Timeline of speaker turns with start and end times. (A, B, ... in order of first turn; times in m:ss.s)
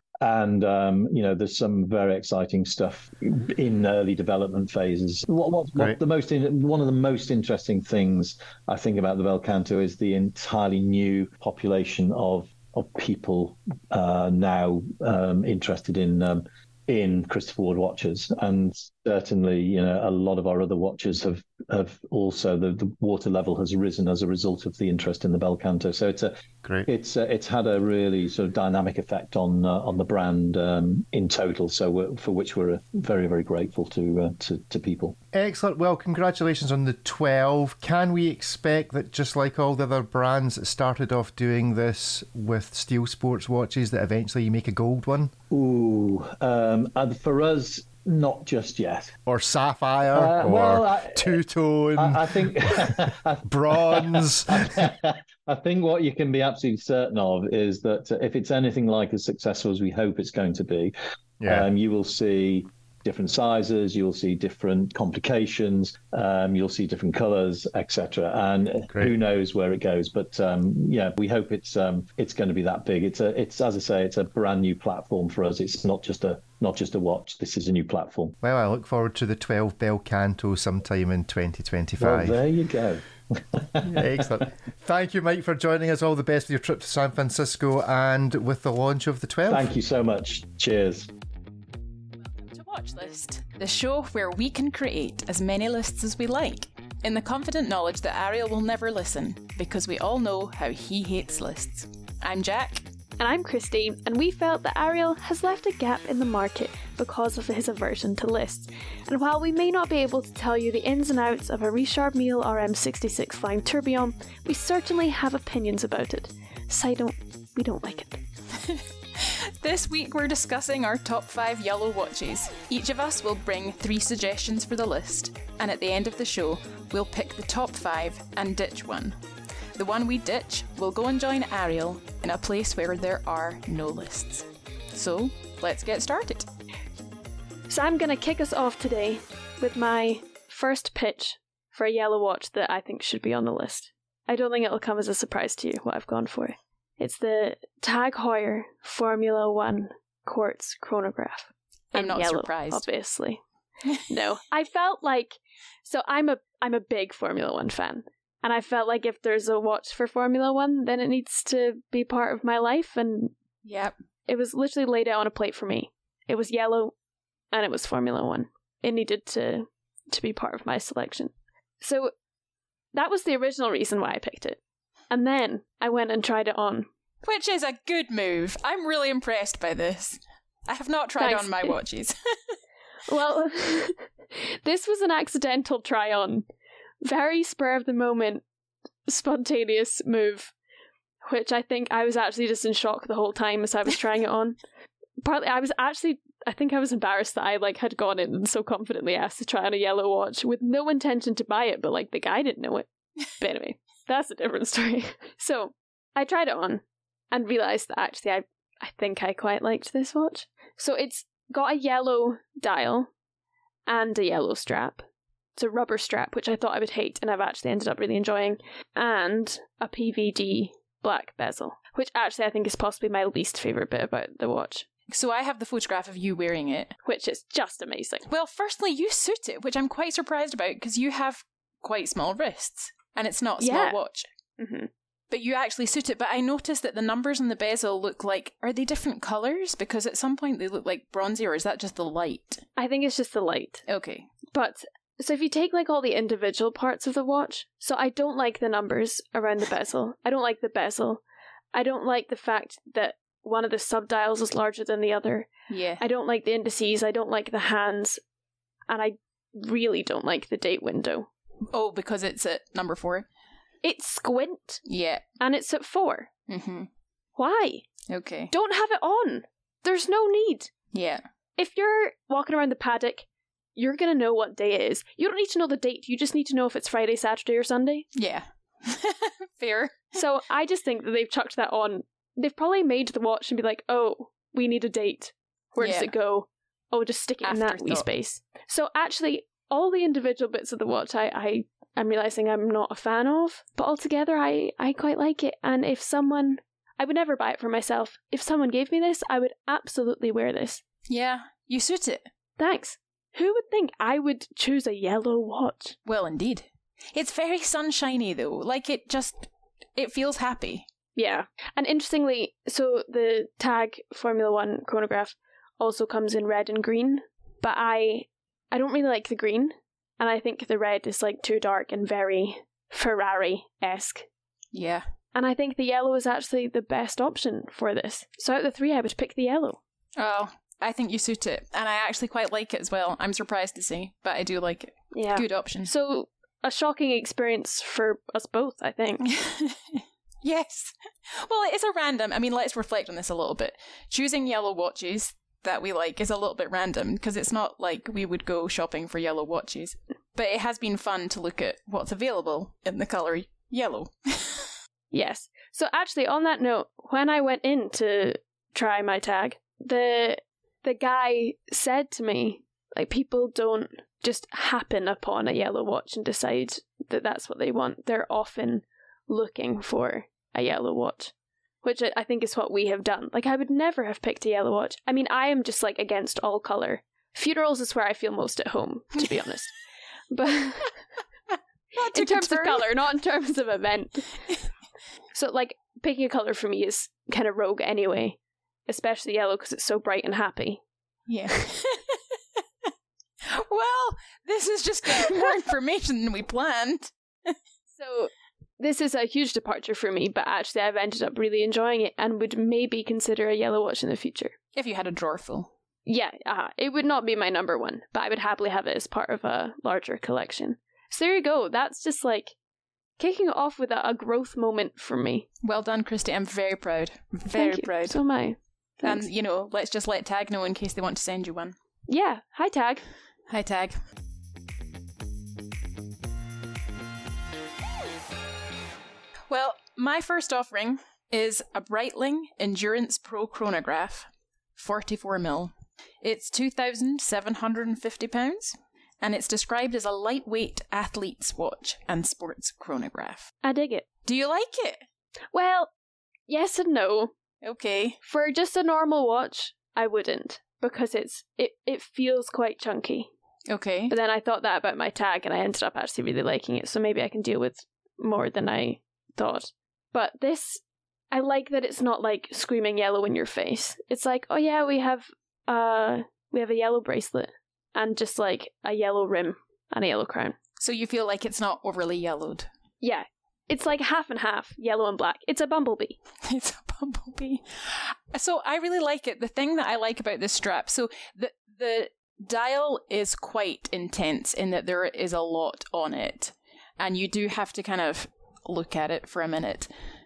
0:00.2-0:26.3 A
0:26.8-0:35.2 A
0:35.3-0:45.3 B
0:45.5-0:49.1 A
0:49.3-0:54.8 B
0:50.1-0:51.4 A
0:52.0-1:00.9 A
1:01.4-1:01.7 B
1:01.5-1:18.4 A
1:18.4-1:22.4 B
1:22.0-1:24.3 A
1:23.8-1:29.7 B
1:29.5-1:31.1 A
1:32.2-1:42.8 C
1:43.2-1:58.2 D
1:58.6-2:09.2 C
2:09.8-2:16.4 C
2:17.7-2:33.4 D
2:31.9-2:32.8 C
2:33.9-2:34.2 C
2:34.1-2:43.3 D
2:43.6-2:43.9 C
2:44.3-2:46.9 D
2:47.5-2:52.1 D
2:52.9-2:54.6 D
2:55.1-2:56.9 D
2:57.2-3:02.6 C
3:01.2-3:01.8 D
3:03.1-3:06.4 D
3:07.0-3:08.4 D
3:09.1-3:10.5 D
3:11.2-3:14.6 D
3:15.2-3:33.1 D
3:33.9-3:35.0 D
3:35.6-3:44.9 D
3:45.1-3:46.9 C
3:47.0-3:48.2 D
3:48.3-3:54.3 C
3:53.6-3:54.0 D
3:54.6-3:54.9 D
3:55.3-4:02.6 C
4:02.8-4:03.8 D
4:03.9-4:04.3 C
4:04.5-4:11.2 D
4:11.7-4:18.2 D
4:15.7-4:16.0 C
4:18.9-4:21.3 D
4:21.7-4:23.2 C
4:23.8-4:24.8 D
4:24.8-4:25.2 C
4:25.4-4:26.3 D
4:26.5-4:26.9 C
4:27.4-4:27.9 D
4:28.1-4:28.5 C
4:28.5-4:30.7 D
4:30.9-4:31.2 C
4:31.6-4:38.1 D
4:38.1-4:40.1 C
4:40.1-5:00.8 D
4:45.8-4:46.1 C
4:47.4-4:48.1 C
5:01.1-5:02.3 C
5:02.6-5:06.0 D
5:06.0-5:10.8 C
5:11.2-5:24.3 D
5:24.7-5:25.0 C
5:25.3-5:29.8 D
5:30.2-5:35.9 C
5:35.1-5:39.2 D
5:39.2-5:54.7 C
5:55.1-6:19.7 D
6:20.3-6:21.0 D
6:22.0-6:22.9 C
6:22.1-6:24.4 D
6:25.3-6:30.8 D
6:31.3-6:32.2 C
6:33.4-6:37.6 C
6:38.0-6:44.5 D
6:44.7-6:45.7 C
6:46.1-6:52.5 D
6:53.2-6:55.5 D
6:55.6-6:58.2 C
6:57.5-6:59.3 D
6:59.0-7:01.7 C
7:02.1-7:03.0 D
7:03.5-7:04.0 C
7:09.5-7:23.5 C
7:23.6-7:24.0 D
7:24.2-7:25.0 C
7:25.5-7:25.9 D
7:26.5-7:27.3 D
7:27.6-7:28.2 C
7:28.2-7:33.3 D
7:33.7-7:34.1 C
7:34.1-7:50.6 D
7:50.8-7:52.7 C
7:53.0-7:56.2 D
7:56.4-8:09.9 C